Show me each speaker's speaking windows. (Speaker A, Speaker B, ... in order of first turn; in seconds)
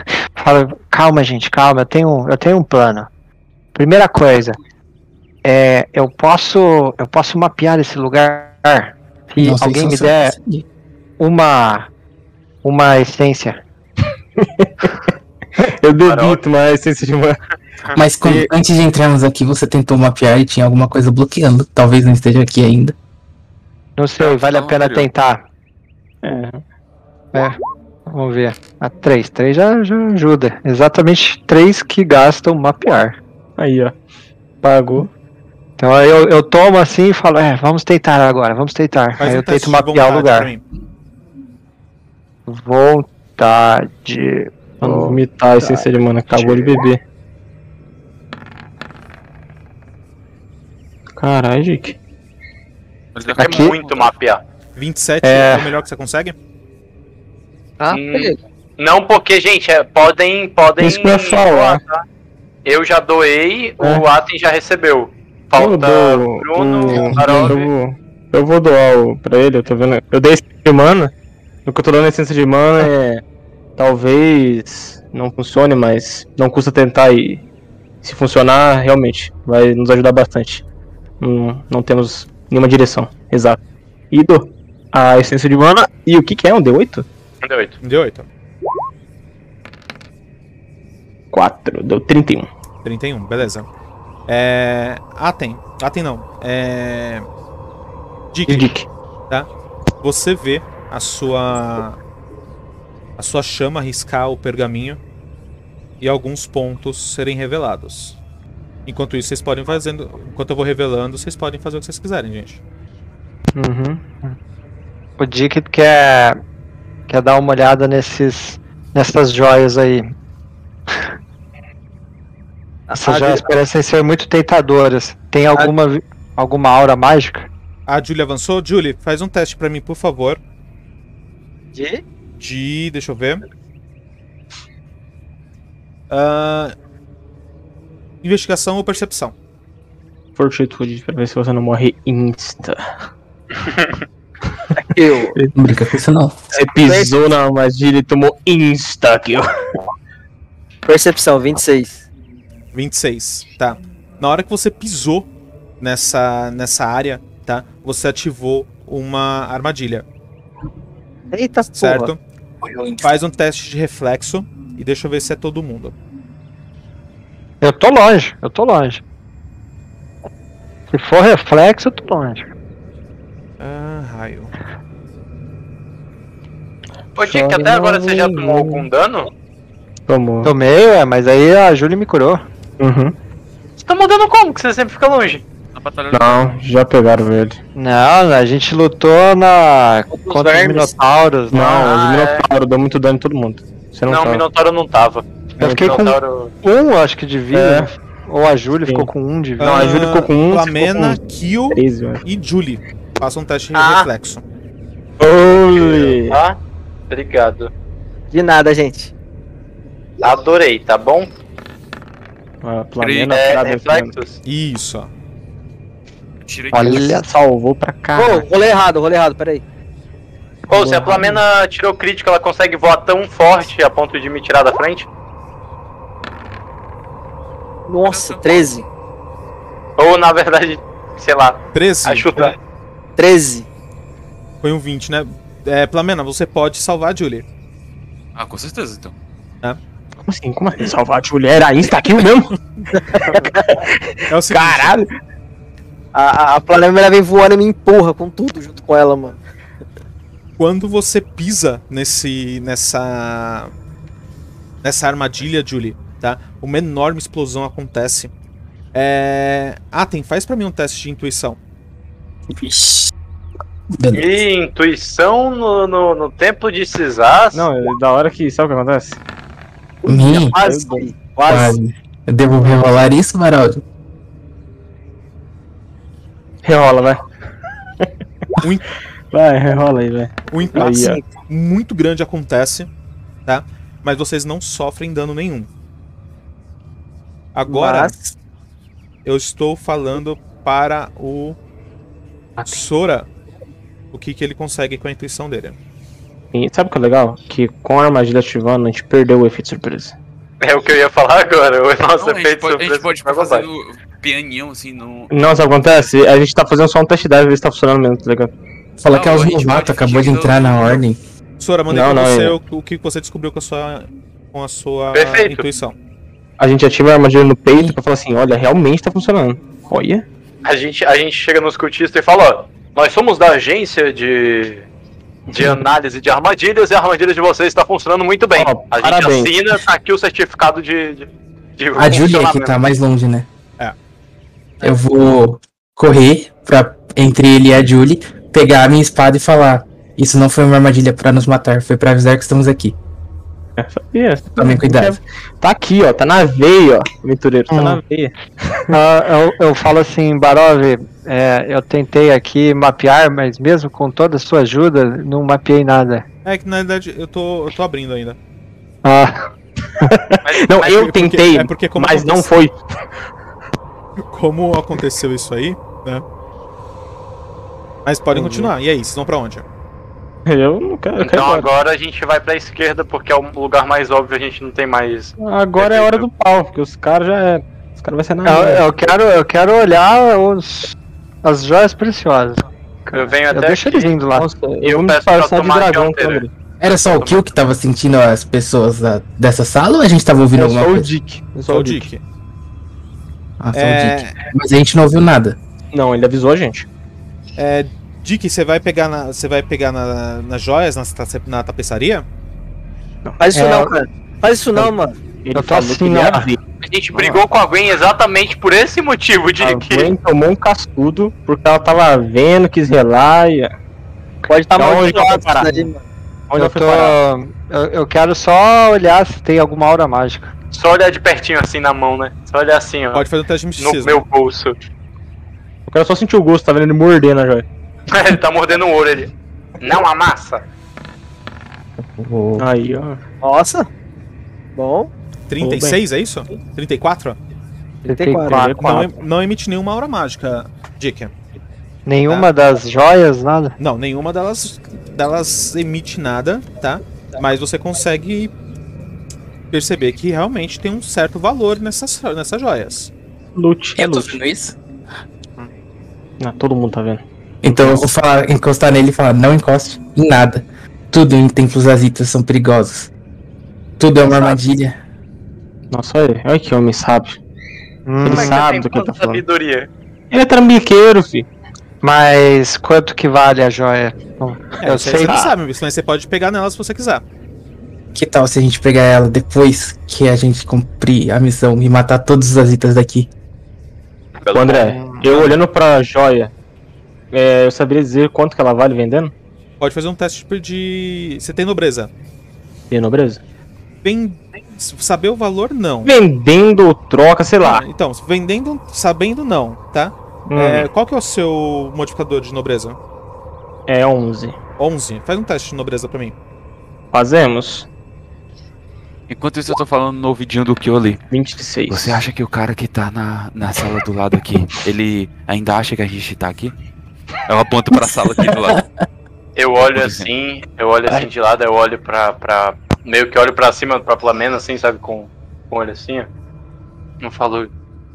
Speaker A: 0.4-3.1, 3.7-4.6, 5.4-10.3, 11.2-11.9, 12.6-13.6, 24.0-25.4, 27.3-33.2, 35.8-40.5, 42.5-46.7, 53.5-53.8, 55.2-55.8, 115.2-116.4, 117.1-120.1, 123.0-127.5, 167.6-169.0, 170.9-172.5, 180.4-182.4, 187.8-191.9, 195.6-199.8, 216.7-217.3, 220.7-221.3, 347.7-348.0, 348.9-356.2, 359.0-359.5, 378.4-384.5, 403.5-403.9, 405.5-406.5, 416.6-420.5, 438.1-439.1, 442.1-443.8, 468.1-468.7, 472.0-475.5, 484.9-485.2
Speaker B: 9.4-10.6, 17.9-22.9, 145.5-146.3, 162.6-163.1, 262.5-263.1, 263.9-264.4, 270.0-270.6, 271.5-273.8, 309.0-311.2, 317.7-318.0, 331.9-333.5, 334.8-342.9, 344.6-345.2, 386.8-391.1, 393.6-395.6, 432.0-432.7, 454.0-454.8, 457.6-463.1, 464.0-465.0, 478.1-483.3
Speaker C: 14.4-14.9, 15.6-17.4, 18.2-18.5, 26.2-26.6, 33.6-33.9, 34.6-35.1, 44.8-47.0, 51.2-52.0, 60.8-61.8, 63.8-64.0, 65.5-71.1, 71.7-73.2, 73.8-77.4, 78.0-80.6, 81.2-83.6, 84.1-87.0, 91.3-92.5, 98.5-98.8, 113.6-114.0, 140.3-142.8, 146.5-149.5, 177.2-178.9, 180.1-180.5, 182.8-183.1, 186.1-187.6, 191.5-194.4, 195.6-196.1, 197.5-197.9, 199.6-201.2, 201.7-202.2, 205.2-206.4, 212.6-214.1, 216.8-218.4, 240.2-245.1, 267.5-269.2, 270.5-271.1, 276.6-277.2, 279.3-281.2, 296.5-300.1, 305.3-308.5, 311.9-312.6, 316.6-320.2, 325.5-325.8, 328.6-329.5, 343.8-348.9, 360.0-362.7, 368.3-368.7, 370.5-371.7, 375.4-378.9, 384.3-386.5, 390.5-392.1, 395.9-396.9, 405.4-406.6, 407.1-407.4, 409.6-413.7, 414.7-415.9, 416.5-417.2, 425.9-427.7, 432.6-433.2, 435.6-436.0, 438.4-439.1, 453.6-454.4, 456.4-458.1, 465.9-467.4, 468.2-469.4, 470.3-471.5, 484.5-486.5, 487.3-489.3, 492.9-493.4, 496.0-497.8, 500.5-500.9, 503.9-504.6, 507.1-507.9, 511.3-512.2
Speaker D: 16.0-16.4, 53.3-54.4, 57.9-62.0, 62.6-67.7, 87.4-87.8, 143.6-144.0, 177.2-179.3, 183.8-185.4, 191.7-192.4, 194.1-196.5, 205.9-206.6, 207.1-207.7, 210.2-211.3, 213.3-214.4, 220.7-225.1, 230.0-232.6, 264.1-267.7, 300.6-303.6, 315.1-315.7, 320.6-324.9, 325.5-332.8, 360.4-361.0, 371.2-376.2, 383.1-384.1, 384.8-387.5, 406.8-410.1, 420.7-423.2, 423.8-424.8, 428.1-430.6, 468.3-469.9, 484.3-484.9, 519.5-526.3, 527.2-527.7
Speaker E: 24.2-25.1, 53.1-54.1, 185.7-186.4, 213.0-213.4, 216.5-217.0, 228.0-228.7, 238.3-239.1, 302.2-306.1, 309.1-311.0, 509.3-511.2, 511.9-516.7, 517.5-518.8, 519.7-520.3
Speaker F: 39.2-40.6, 54.8-56.4, 87.8-88.3, 92.8-93.7, 94.3-97.3, 98.3-98.7, 100.0-102.0, 103.2-105.0, 106.0-108.2, 108.8-112.6, 127.9-130.4, 132.4-133.4, 136.1-136.7, 138.2-139.3, 152.7-155.3, 155.8-160.0, 161.7-162.2, 163.0-165.9, 173.6-174.5, 199.6-204.4, 205.8-206.1, 214.4-215.1, 231.7-232.5, 234.6-237.4, 244.3-245.0, 250.6-253.7, 254.8-258.3, 258.9-261.6, 278.6-278.9, 280.5-282.9, 283.4-285.7, 287.5-288.2, 289.2-291.6, 292.6-293.3, 294.1-295.8, 311.6-315.9, 356.4-358.4, 360.8-362.5, 364.3-366.2, 368.0-369.6, 391.7-392.2, 393.7-394.3, 397.6-402.2, 423.1-424.2, 435.5-437.4, 438.9-441.3, 443.8-448.5, 449.7-453.1, 474.8-477.2, 485.3-485.6, 489.8-492.1, 494.0-496.1, 497.6-503.0, 504.8-506.4
Speaker G: 57.8-58.4, 122.9-123.5, 131.7-132.0, 144.8-145.3, 146.8-147.1, 150.8-152.0, 161.3-162.1, 190.1-190.9, 208.3-209.1, 218.1-219.6, 227.9-228.8, 233.2-233.7, 246.1-249.4, 270.0-271.8, 287.7-288.1, 403.4-405.2, 414.5-416.0, 433.4-433.9, 434.7-435.1, 438.1-438.6